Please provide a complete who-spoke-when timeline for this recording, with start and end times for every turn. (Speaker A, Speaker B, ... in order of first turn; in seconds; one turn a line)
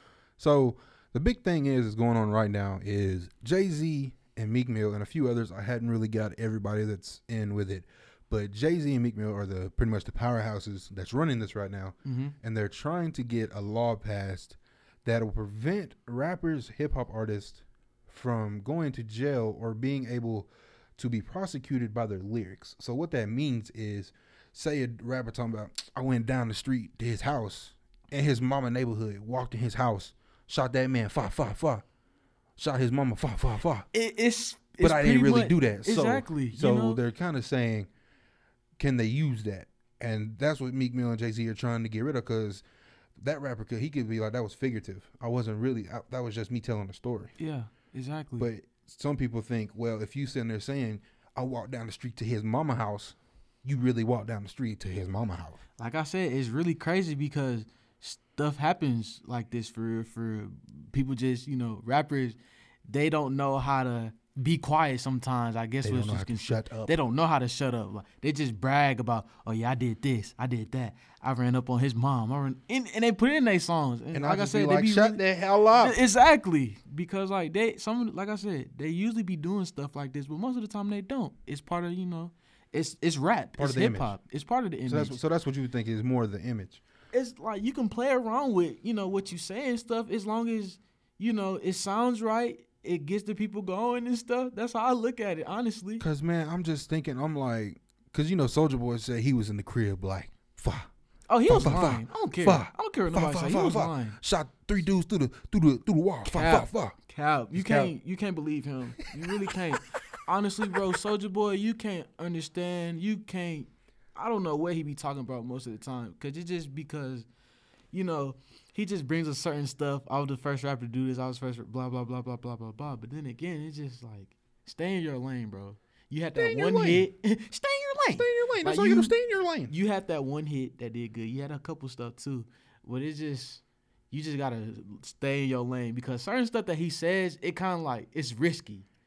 Speaker A: 0.4-31.8
Speaker B: 12.1-12.3
Speaker A: 32.6-33.9
Speaker B: 33.9-37.0
Speaker A: 34.8-37.9
Speaker A: 38.8-42.6
Speaker A: 43.2-47.3
Speaker B: 47.4-48.5
Speaker A: 48.4-55.6
Speaker B: 55.8-85.2
Speaker A: 65.8-67.0
Speaker A: 74.1-76.0
Speaker A: 83.6-84.2
Speaker A: 84.9-86.8
Speaker B: 87.1-96.0
Speaker A: 96.0-100.9
Speaker B: 101.3-104.2
Speaker A: 101.5-107.0
Speaker B: 106.2-117.3
Speaker A: 107.5-107.9
Speaker B: 117.9-129.2
Speaker A: 126.3-127.1
Speaker A: 128.2-129.7
Speaker B: 129.7-138.8